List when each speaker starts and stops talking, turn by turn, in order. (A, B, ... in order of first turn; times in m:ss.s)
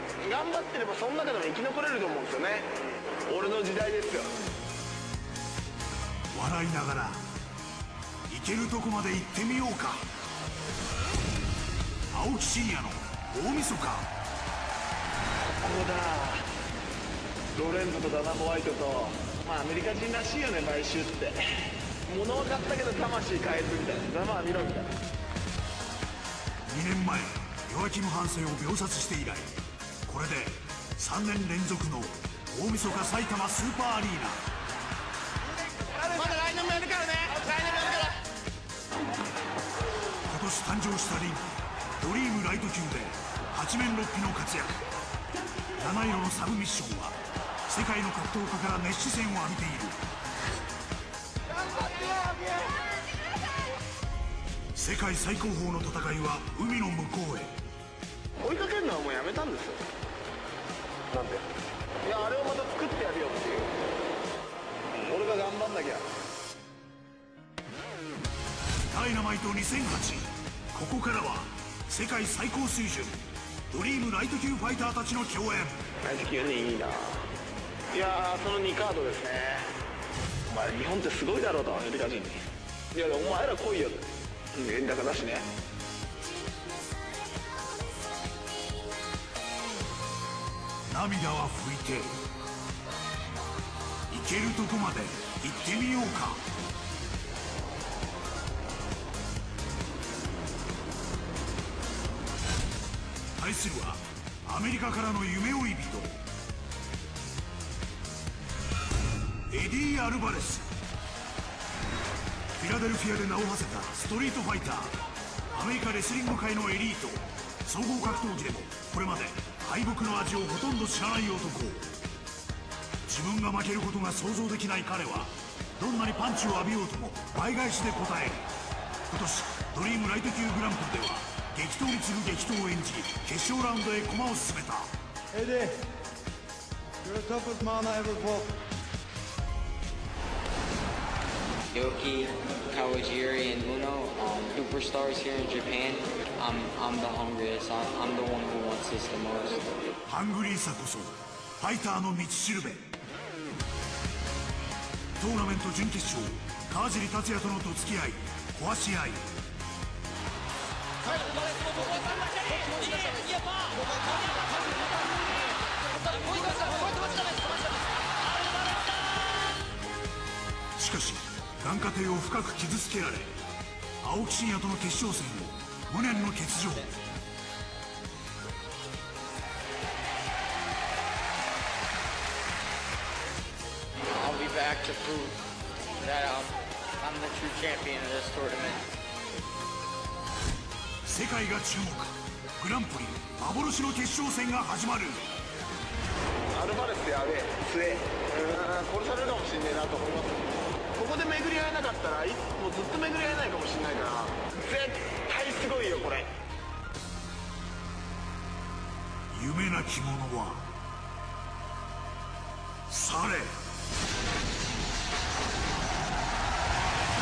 0:00.2-0:02.8 A
0:03.3-0:04.3 A
0:06.3-0:07.2 B
0:08.3-0:10.0 B
0:12.1-0:14.1 B
0:15.6-0:16.4 A
0:17.5-0:21.4 A
0:22.1-0:24.9 A
0:26.7-0:29.5 B
0:30.1-0:34.4 B
0:36.0-0:38.1 A
0:40.3-0:44.8 B
0:45.8-0:47.2 B
0:47.7-0:50.0 B
0:51.9-0:52.5 A
0:54.8-0:57.5 B
0:58.4-0:59.8 A
1:01.1-1:01.5 A
1:02.0-1:03.7 A
1:04.9-1:06.0 A
1:08.9-1:13.2 B
1:13.7-1:15.8 B
1:16.0-1:17.2 A
1:17.9-1:19.7 A
1:20.5-1:22.4 A
1:22.9-1:25.5 A
1:30.9-1:32.1 B
1:34.1-1:36.4 B
1:43.4-1:46.2 B
1:49.5-1:50.7 B
1:52.6-1:54.9 B
1:55.5-2:01.9 B
2:03.1-2:08.5 B
2:09.1-2:14.9 B
2:15.4-2:15.8 C
2:17.0-2:18.6 C
2:21.7-2:29.9 D
2:30.1-2:32.8 B
2:35.2-2:39.3 B
2:42.6-2:43.2 D
2:46.3-2:47.4 D
2:50.8-2:53.3 B
2:54.0-2:56.9 B
3:04.1-3:05.4 D
3:06.0-3:08.8 D
3:11.0-3:15.2 B
3:16.5-3:26.3 A
3:29.3-3:30.7 B
3:32.9-3:33.5 B